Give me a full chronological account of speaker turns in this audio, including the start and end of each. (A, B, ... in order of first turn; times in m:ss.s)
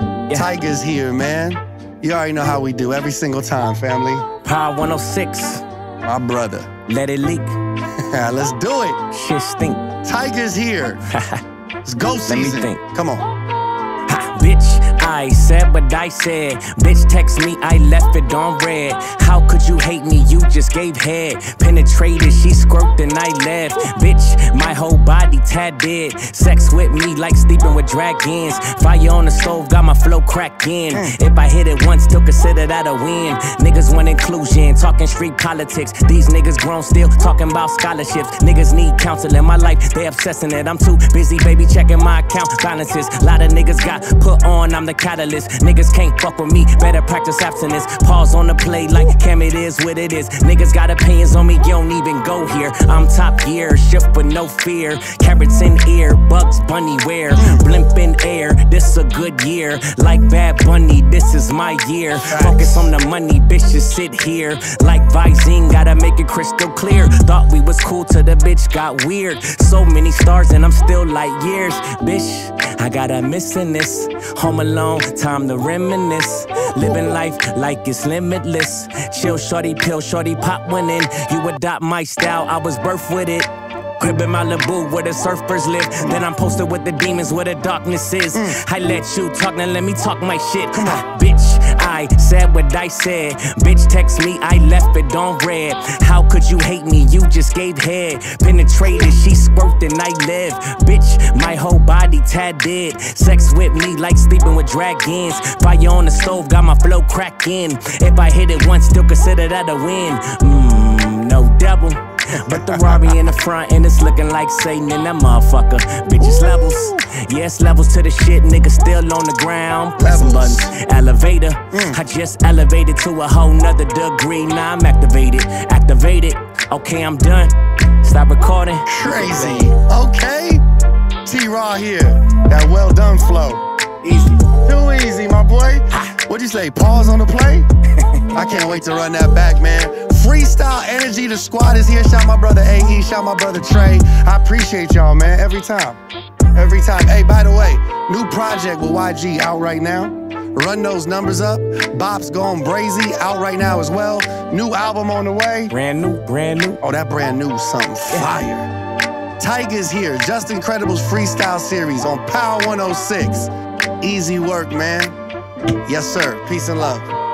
0:00.3-0:04.3 A
0:04.4-0:05.6 B
0:06.0-0:06.7 A
0:06.9-0:07.6 B
0:08.1-0:09.0 A
0:09.1-0:09.9 B
0:10.0-0:11.0 A
0:11.1-0:11.4 B
0:11.8-0:13.3 A
0:12.3-0:12.8 B
0:14.1-2:09.7 B
0:57.4-0:57.7 A
1:02.2-1:02.9 A
1:28.3-1:28.6 A
1:30.7-1:31.0 A
1:52.5-1:53.2 A
1:56.2-1:57.0 A
2:00.0-2:00.7 A
2:01.7-2:02.0 A
2:08.8-2:10.6 A
2:11.2-2:13.6 A
2:14.0-2:14.4 B
2:14.5-2:17.7 A
2:18.0-2:18.6 B
2:18.3-2:26.0 A
2:26.5-2:35.7 A
2:35.7-2:36.8 B
2:36.8-2:38.7 A
2:39.4-2:45.2 A
2:45.8-2:47.1 A